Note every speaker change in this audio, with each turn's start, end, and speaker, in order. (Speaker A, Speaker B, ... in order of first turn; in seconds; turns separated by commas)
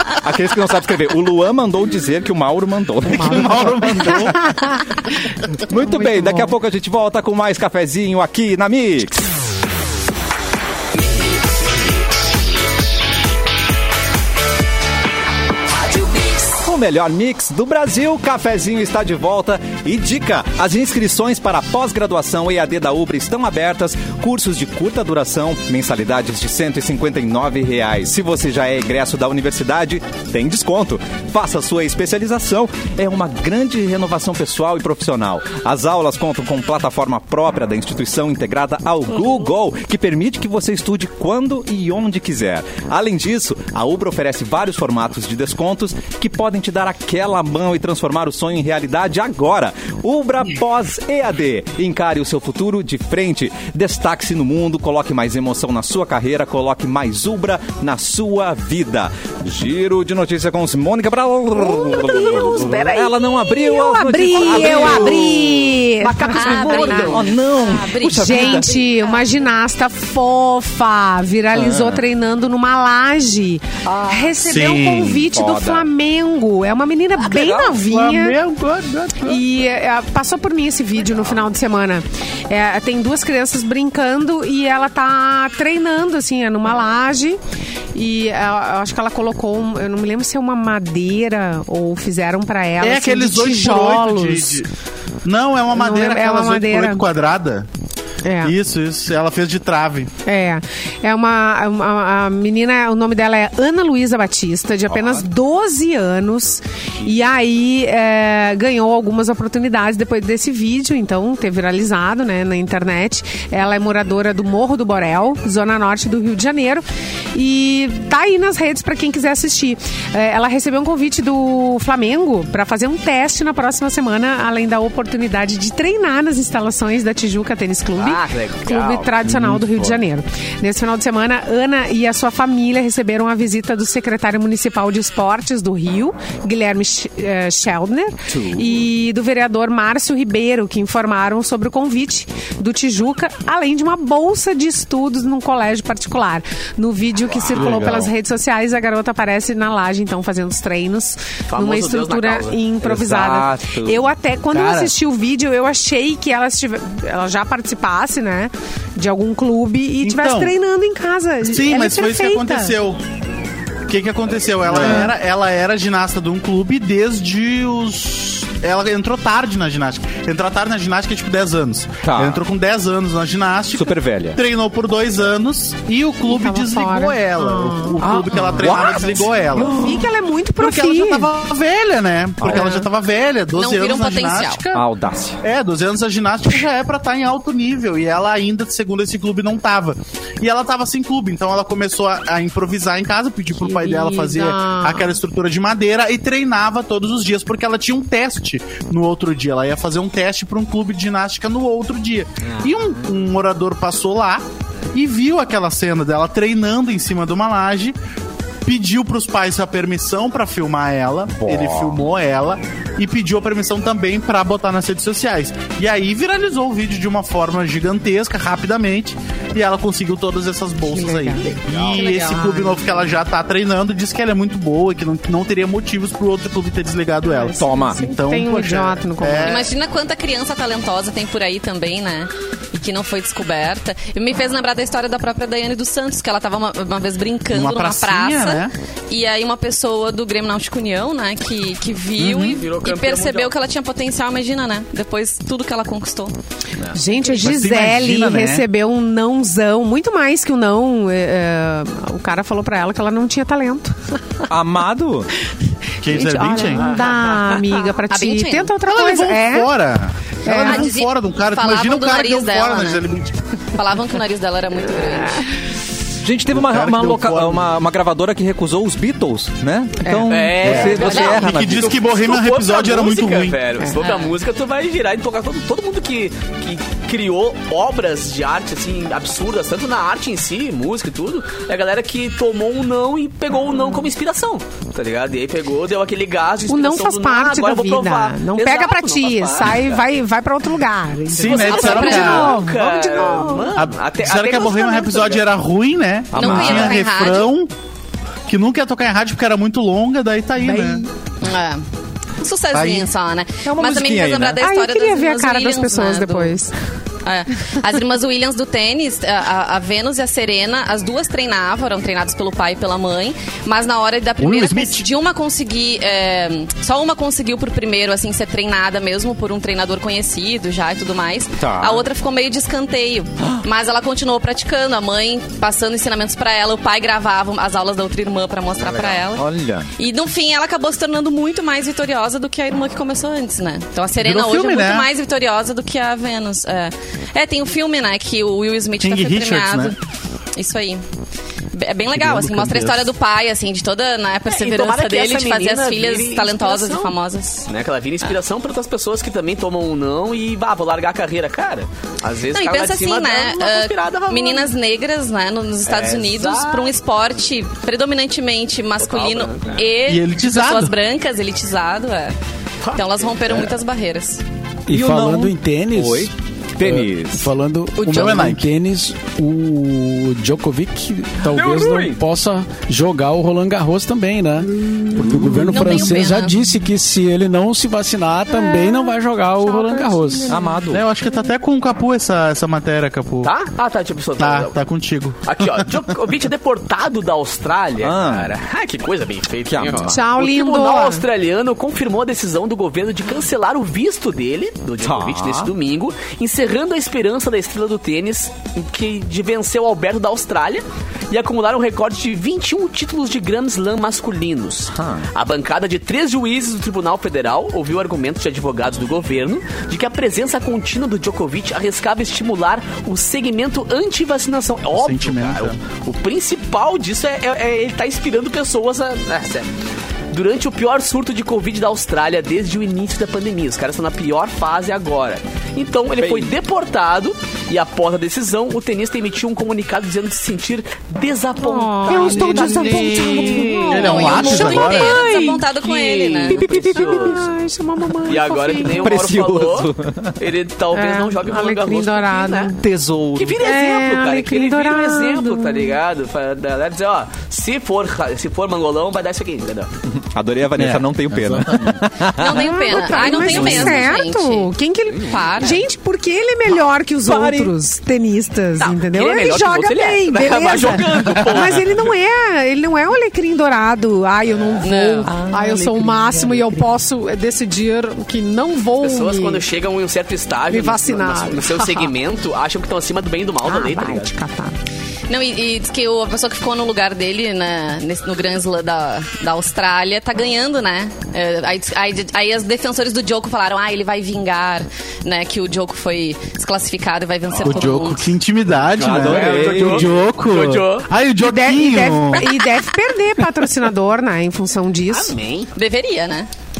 Speaker A: 0.2-4.3, Speaker B: 3.1-4.4, Speaker C: 3.1-4.7, Speaker A: 5.7-9.3, Speaker C: 5.7-6.5, Speaker A: 16.5-65.8, Speaker C: 61.5-67.2, Speaker D: 62.2-62.7, Speaker D: 64.3-65.4, Speaker D: 66.0-67.3, Speaker E: 66.3-69.2, Speaker A: 67.0-68.7, Speaker C: 68.0-78.4, Speaker A: 71.5-72.0, Speaker B: 74.4-75.3, Speaker A: 75.3-75.9, Speaker D: 77.2-77.7, Speaker B: 77.8-79.4, Speaker C: 79.2-87.4, Speaker C: 87.9-94.6, Speaker B: 92.8-94.7, Speaker B: 95.2-97.7, Speaker C: 95.7-97.0, Speaker C: 98.2-98.5, Speaker B: 98.4-100.1, Speaker C: 100.2-162.7, Speaker A: 104.9-105.2, Speaker D: 128.0-129.1, Speaker A: 129.3-129.9, Speaker A: 138.3-138.8, Speaker A: 147.5-148.1, Speaker B: 147.5-147.9, Speaker D: 151.5-152.6, Speaker A: 152.8-154.1, Speaker B: 154.5-154.9, Speaker B: 160.0-160.5, Speaker B: 161.4-163.0, Speaker B: 163.9-179.8, Speaker A: 164.7-165.1, Speaker A: 172.0-172.4, Speaker A: 173.8-174.4, Speaker C: 176.2-178.8, Speaker A: 178.0-180.1, Speaker C: 179.6-181.3, Speaker B: 180.6-184.8, Speaker A: 182.4-182.7, Speaker C: 182.5-182.9, Speaker E: 183.6-184.7, Speaker A: 184.7-185.4, Speaker B: 185.4-207.9, Speaker C: 193.6-195.2, Speaker B: 208.6-229.7, Speaker A: 211.4-212.0, Speaker C: 220.9-223.1, Speaker E: 222.0-222.3, Speaker C: 227.2-229.7, Speaker A: 227.6-228.0, Speaker E: 229.4-246.3, Speaker B: 237.5-238.7, Speaker B: 242.2-242.6, Speaker D: 242.2-243.5, Speaker C: 246.9-254.0, Speaker B: 247.3-248.7, Speaker A: 254.5-255.3, Speaker B: 256.0-257.0, Speaker C: 256.0-259.7, Speaker D: 256.9-257.6, Speaker E: 258.1-258.7, Speaker B: 258.9-263.4, Speaker C: 260.4-260.9, Speaker E: 260.6-263.0, Speaker E: 263.7-265.4, Speaker A: 266.2-272.0, Speaker B: 266.5-267.7, Speaker C: 270.1-270.3, Speaker D: 270.3-290.0, Speaker B: 270.6-273.6, Speaker E: 271.0-271.4, Speaker E: 274.0-274.3, Speaker C: 286.7-293.7, Speaker B: 291.3-292.6, Speaker D: 291.4-295.4, Speaker E: 291.6-292.6, Speaker B: 293.7-297.7, Speaker A: 296.3-297.0, Speaker E: 296.3-297.5, Speaker B: 298.5-301.0, Speaker C: 300.6-301.1, Speaker E: 301.4-301.8, Speaker E: 302.4-306.6, Speaker B: 302.7-303.0, Speaker A: 303.6-304.6, Speaker C: 304.6-306.7, Speaker E: 307.2-339.9, Speaker B: 314.4-315.0, Speaker A: 321.6-322.0, Speaker A: 329.2-329.9, Speaker B: 334.2-335.1, Speaker B: 339.0-339.9, Speaker E: 340.6-341.0, Speaker E: 341.7-347.7, Speaker B: 342.1-343.1, Speaker D: 344.5-347.1, Speaker D: 347.7-354.7, Speaker E: 352.5-362.3, Speaker D: 355.9-356.9, Speaker D: 359.0-359.8, Speaker B: 360.1-360.9, Speaker D: 362.8-363.3, Speaker E: 362.9-364.4, Speaker F: 364.9-380.6, Speaker A: 364.9-367.5, Speaker B: 368.0-368.6, Speaker E: 368.1-368.4, Speaker D: 371.5-372.2, Speaker E: 375.6-376.6, Speaker C: 378.5-380.7, Speaker A: 380.5-381.1, Speaker B: 380.9-383.5, Speaker D: 383.4-384.8, Speaker B: 384.4-386.0, Speaker D: 385.4-419.7, Speaker A: 388.0-388.5, Speaker A: 389.7-390.2, Speaker C: 390.1-391.2, Speaker A: 395.0-395.7, Speaker A: 404.9-405.3, Speaker B: 414.9-415.8, Speaker D: 420.3-437.5, Speaker A: 426.2-426.5, Speaker C: 431.6-435.6, Speaker A: 432.2-433.6, Speaker B: 432.6-435.2, Speaker E: 433.9-436.7, Speaker A: 436.5-437.4, Speaker C: 436.9-439.1, Speaker D: 438.3-442.7, Speaker A: 438.9-440.4, Speaker C: 440.9-442.8, Speaker A: 442.8-443.6, Speaker D: 443.4-449.9, Speaker C: 443.6-445.9, Speaker A: 450.1-454.1, Speaker E: 452.3-454.7, Speaker C: 452.4-469.6, Speaker D: 455.1-455.4, Speaker E: 455.2-455.8, Speaker A: 457.2-457.7, Speaker D: 458.8-462.1, Speaker D: 464.5-464.9, Speaker E: 464.8-465.4, Speaker A: 465.3-466.7, Speaker D: 469.0-474.3, Speaker C: 470.7-472.1, Speaker C: 473.6-474.7, Speaker E: 475.3-488.3, Speaker B: 487.6-492.5, Speaker D: 487.6-487.9, Speaker A: 488.9-490.1, Speaker D: 489.0-491.1, Speaker C: 491.4-495.4, Speaker D: 495.1-495.7, Speaker E: 495.7-496.5